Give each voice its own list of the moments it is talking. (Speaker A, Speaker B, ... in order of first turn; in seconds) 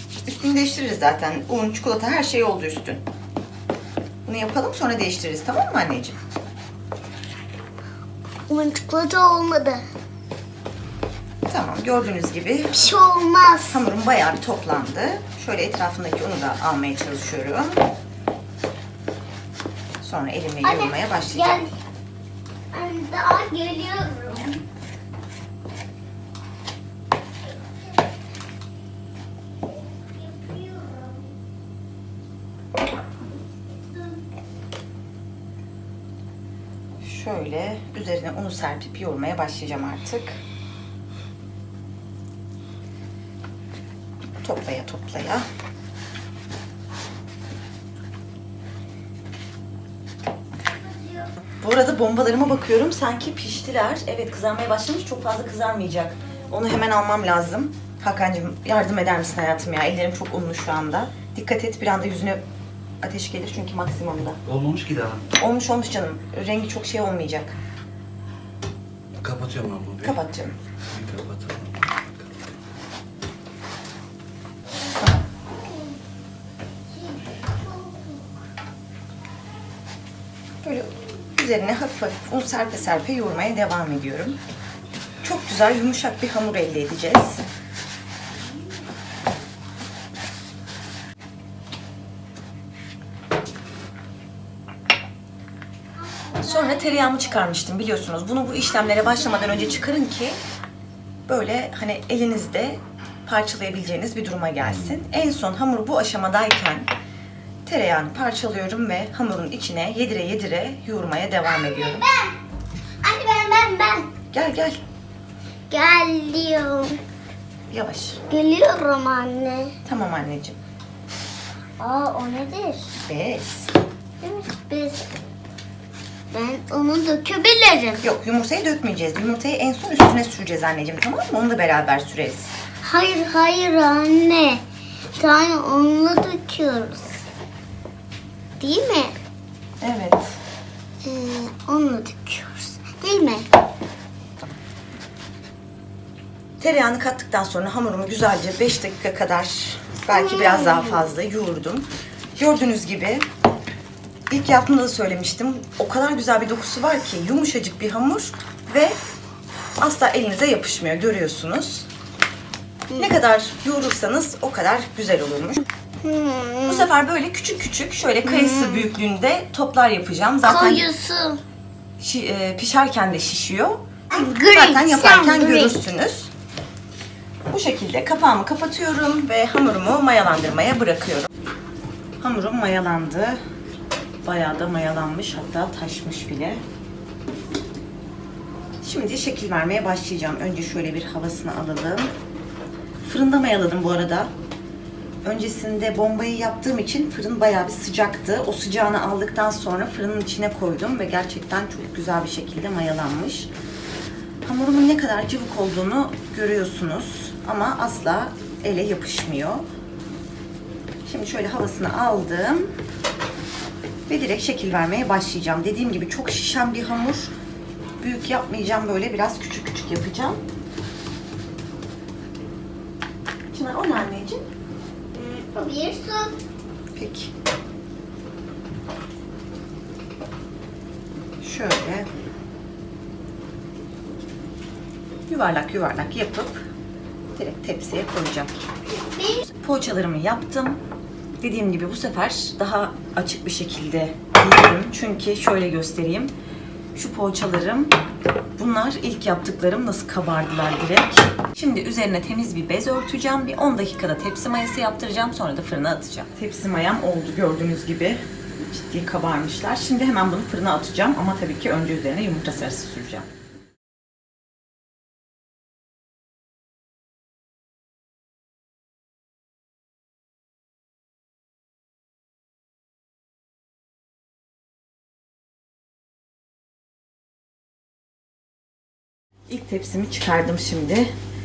Speaker A: 0.2-3.0, 4.2-6.2, 11.5-12.9, 13.7-17.8, 20.0-21.7, 37.0-40.4, 44.4-45.5, 51.6-62.4, 63.0-64.4, 65.4-67.5, 70.0-70.5, 80.6-84.4, 85.2-87.4, 96.4-100.4, 101.3-106.9, 107.6-112.1, 114.3-114.8, 117.7-118.2, 119.8-120.6, 123.0-123.7, 128.0-132.5, 139.8-140.4, 146.6-153.2, 154.3-159.0, 159.8-161.9, 162.9-165.7, 166.7-170.9, 172.0-176.3, 177.5-181.3, 182.2-183.4, 184.2-186.6, 188.8-192.1, 193.0-194.3, 195.2-203.5, 204.4-209.6, 211.0-212.7, 214.1-217.3, 218.0-220.4, 223.5-224.4, 226.9-227.3, 231.4-232.1, 235.3-236.7, 237.3-238.6, 239.4-240.8, 241.4-246.3, 246.9-247.9, 248.6-263.3, 279.5-281.1
Speaker B: 8.5-9.8, 12.7-13.8, 20.6-21.7, 22.7-24.6, 29.7-31.3, 50.8-51.3, 75.5-76.0, 76.9-78.3, 96.0-97.4, 99.0-99.6, 111.5-112.3, 113.0-114.1, 115.7-117.0, 118.3-119.7, 121.8-122.9, 124.2-125.0, 126.3-128.0, 132.8-134.6, 135.2-137.2, 138.6-139.1, 141.0-143.5, 150.1-151.0, 166.0-166.8, 168.3-168.8, 170.4-171.4, 174.1-175.8, 225.1-226.3, 239.2-239.4
Speaker C: 64.4-65.2, 69.2-70.2, 70.9-72.6